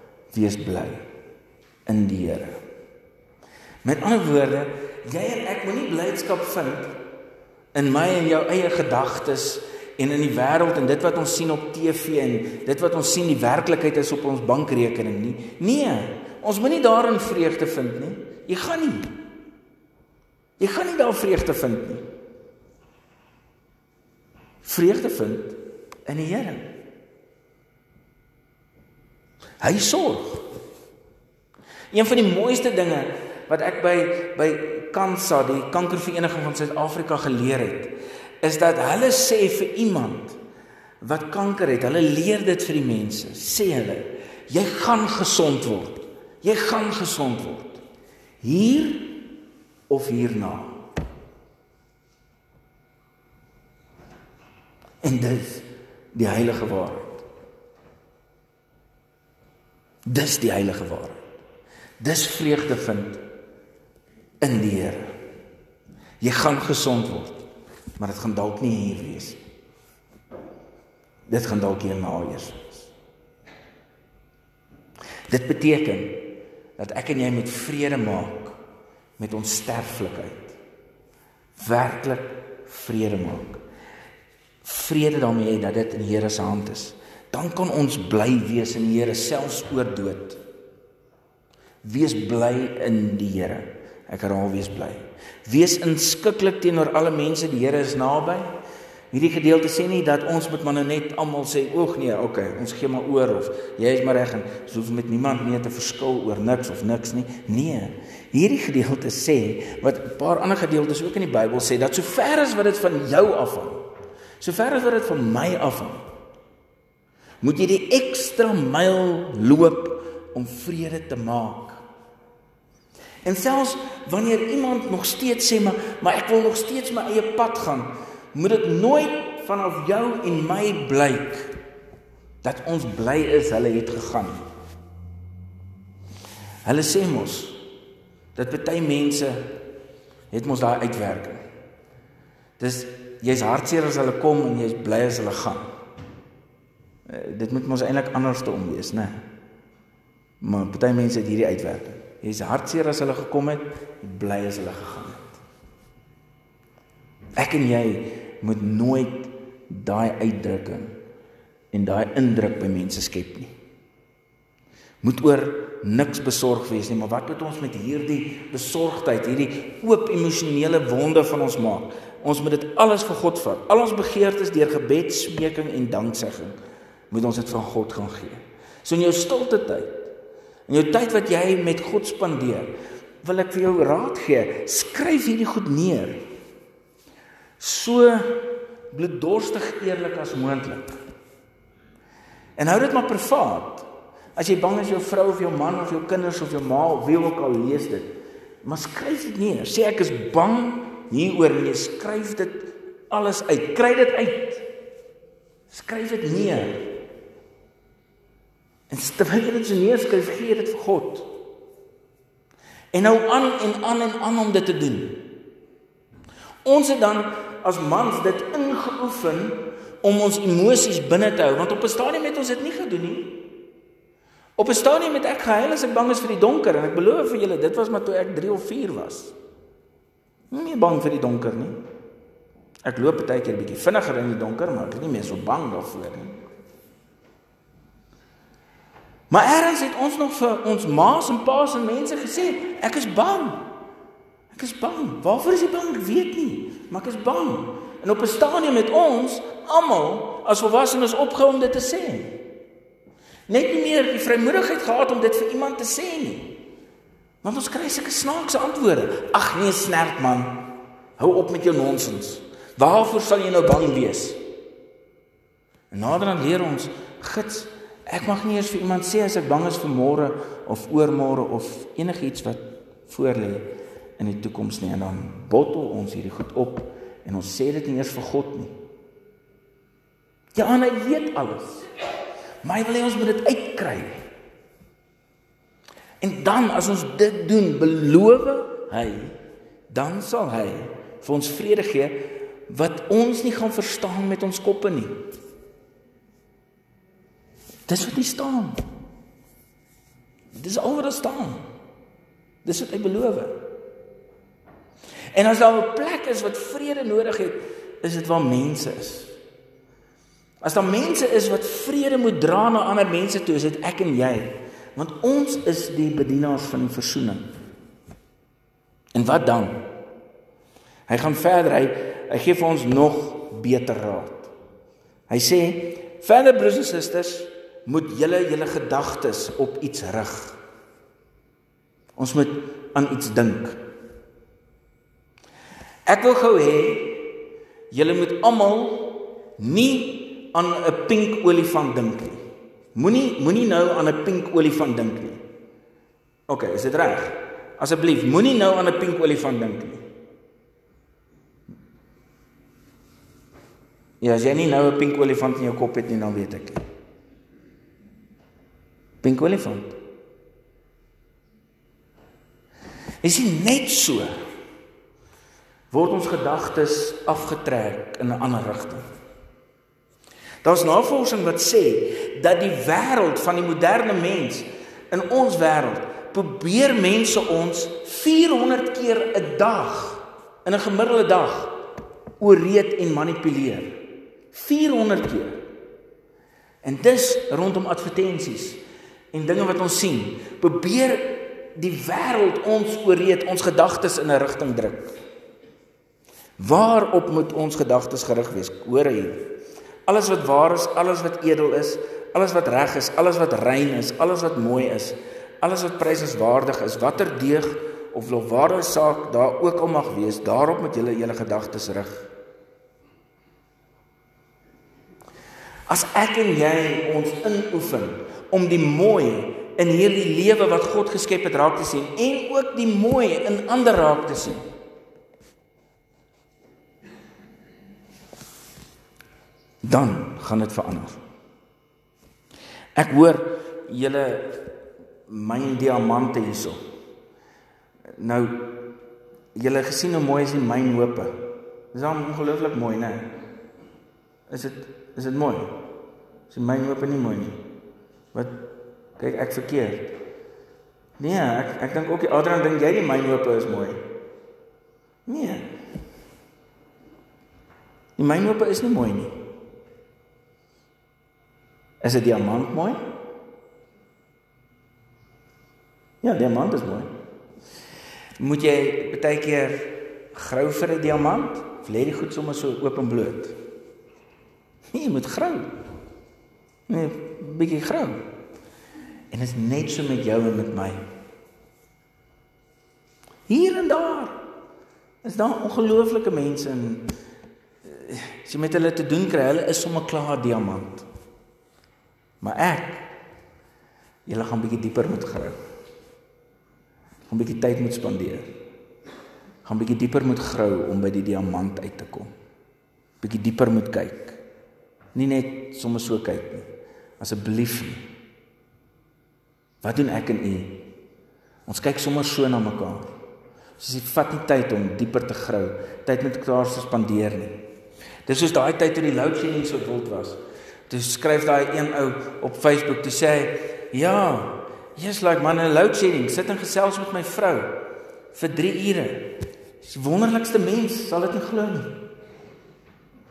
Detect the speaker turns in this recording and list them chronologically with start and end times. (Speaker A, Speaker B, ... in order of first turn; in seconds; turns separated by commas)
Speaker A: 0.3-1.1, Speaker A: 1.9-2.6, Speaker A: 3.8-7.0, Speaker A: 7.7-19.2, Speaker A: 20.6-22.1, Speaker A: 24.6-26.7, Speaker A: 29.6-30.5, Speaker A: 31.9-40.4, Speaker A: 41.0-47.8, Speaker A: 48.4-49.4, Speaker A: 49.9-50.8, Speaker A: 55.0-57.2, Speaker A: 60.1-61.2, Speaker A: 62.0-63.2, Speaker A: 64.4-65.1, Speaker A: 66.2-67.5, Speaker A: 68.0-69.4, Speaker A: 71.3-72.9, Speaker A: 75.3-78.6, Speaker A: 79.2-80.6, Speaker A: 81.6-83.6, Speaker A: 84.6-90.4, Speaker A: 91.8-98.5, Speaker A: 99.1-113.9, Speaker A: 114.4-116.0, Speaker A: 117.4-121.8, Speaker A: 123.2-131.5, Speaker A: 132.4-134.4, Speaker A: 136.7-137.6, Speaker A: 138.3-139.5, Speaker A: 140.3-141.4, Speaker A: 142.6-145.7, Speaker A: 147.1-149.3, Speaker A: 150.4-155.4, Speaker A: 157.4-160.9, Speaker A: 161.7-163.5, Speaker A: 165.0-176.6, Speaker A: 177.1-180.1, Speaker A: 180.7-186.2, Speaker A: 187.6-191.0, Speaker A: 192.6-204.7, Speaker A: 205.7-206.9, Speaker A: 208.9-211.3, Speaker A: 212.9-215.3, Speaker A: 216.7-223.5, Speaker A: 224.6-229.3, Speaker A: 230.5-231.8, Speaker A: 232.8-236.4, Speaker A: 239.3-243.7, Speaker A: 244.5-252.4, Speaker A: 253.5-256.6, Speaker A: 257.4-264.4, Speaker A: 265.9-278.8, Speaker A: 280.5-281.9, Speaker A: 282.6-284.2, Speaker A: 286.2-289.4, Speaker A: 289.9-295.2, Speaker A: 297.9-298.8, Speaker A: 300.6-301.7, Speaker A: 302.6-303.6, Speaker A: 305.3-309.4, Speaker A: 310.6-317.5, Speaker A: 319.1-319.8, Speaker A: 321.1-324.5, Speaker A: 325.3-330.6, Speaker A: 332.2-333.8, Speaker A: 336.1-337.3, Speaker A: 337.9-342.4, Speaker A: 342.9-345.4, Speaker A: 346.5-350.1, Speaker A: 354.2-356.8, Speaker A: 359.2-360.0, Speaker A: 363.2-364.4, Speaker A: 365.9-369.0, Speaker A: 370.6-381.8, Speaker A: 382.4-385.6, Speaker A: 386.8-388.8, Speaker A: 389.3-395.1, Speaker A: 396.6-399.5, Speaker A: 400.1-412.3, Speaker A: 415.9-424.6, Speaker A: 429.8-431.2, Speaker A: 432.9-434.7, Speaker A: 435.3-436.8, Speaker A: 438.2-438.9, Speaker A: 439.6-443.4, Speaker A: 444.5-445.8, Speaker A: 446.5-447.6, Speaker A: 448.3-450.2, Speaker A: 451.2-454.0, Speaker A: 455.3-455.6, Speaker A: 458.2-459.4, Speaker A: 462.0-463.1, Speaker A: 466.2-467.1, Speaker A: 468.4-473.6, Speaker A: 474.9-475.7, Speaker A: 476.9-478.2, Speaker A: 479.3-481.0, Speaker A: 483.5-484.4, Speaker A: 485.2-487.1, Speaker A: 487.9-491.1, Speaker A: 492.4-493.1, Speaker A: 494.3-495.6, Speaker A: 497.3-498.5, Speaker A: 499.6-502.3, Speaker A: 503.2-504.4, Speaker A: 505.1-506.7, Speaker A: 507.2-508.0, Speaker A: 509.8-510.9, Speaker A: 511.7-513.1, Speaker A: 513.8-517.6, Speaker A: 518.3-527.8, Speaker A: 528.3-532.0